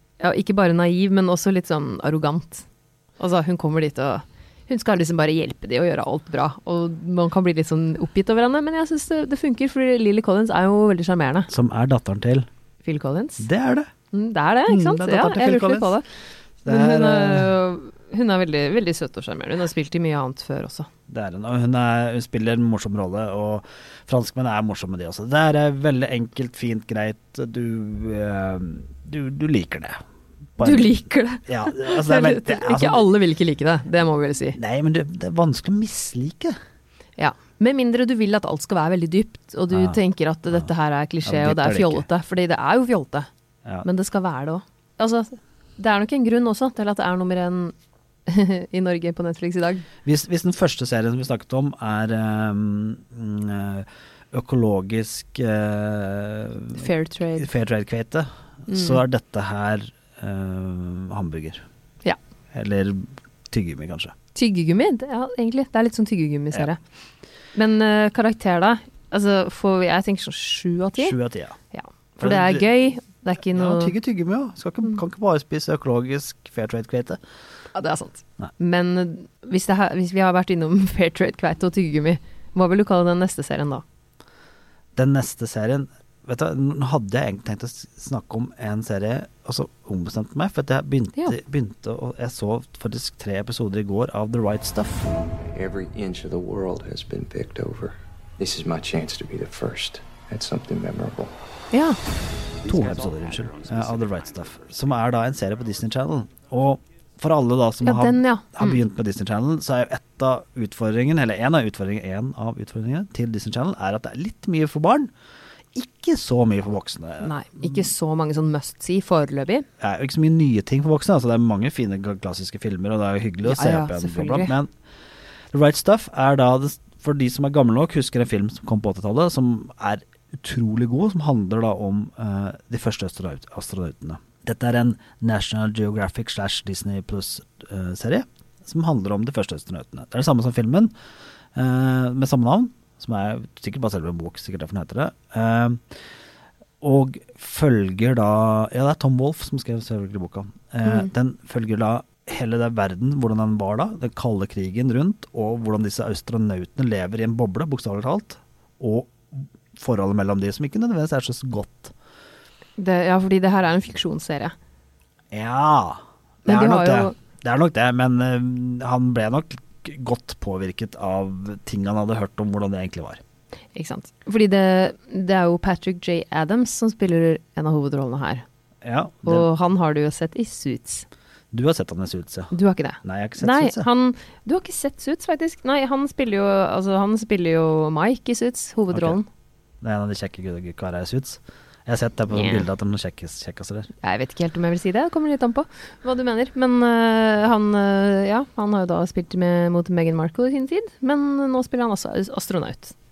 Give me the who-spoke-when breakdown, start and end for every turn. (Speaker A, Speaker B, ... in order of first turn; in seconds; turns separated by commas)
Speaker A: 0.2-2.6, Speaker A: 3.2-11.5, Speaker B: 11.5-12.5, Speaker A: 12.8-13.5, Speaker B: 13.4-13.9, Speaker A: 14.1-16.1, Speaker B: 14.7-16.0, Speaker B: 16.6-17.5, Speaker A: 16.6-20.9, Speaker B: 21.1-30.0, Speaker B: 30.6-33.1, Speaker A: 30.6-34.6, Speaker B: 34.5-36.6, Speaker A: 37.2-43.3, Speaker B: 39.7-40.0, Speaker B: 41.2-42.0, Speaker A: 43.8-47.7, Speaker A: 48.3-49.9, Speaker B: 50.0-61.6, Speaker A: 56.8-57.5, Speaker A: 58.7-59.0, Speaker B: 62.5-64.1, Speaker A: 64.3-66.8, Speaker A: 67.5-71.2, Speaker B: 71.0-71.5, Speaker A: 71.7-74.0, Speaker B: 72.2-72.7, Speaker B: 73.5-77.2, Speaker A: 77.7-83.8, Speaker B: 85.0-95.2, Speaker C: 95.4-101.3, Speaker A: 101.7-102.0, Speaker B: 102.6-115.1, Speaker A: 107.8-108.8, Speaker B: 115.8-117.9, Speaker A: 117.2-119.7, Speaker B: 119.8-124.7, Speaker A: 123.4-124.5, Speaker B: 125.5-140.9, Speaker B: 141.6-145.8, Speaker B: 146.8-161.9, Speaker A: 162.8-164.5, Speaker B: 165.3-173.2, Speaker A: 166.5-167.1, Speaker A: 173.8-178.4, Speaker B: 178.8-179.5, Speaker A: 179.2-181.1, Speaker B: 181.5-183.9, Speaker A: 182.5-189.3, Speaker B: 188.9-189.2, Speaker B: 189.8-193.9, Speaker A: 192.3-192.7, Speaker A: 194.0-202.9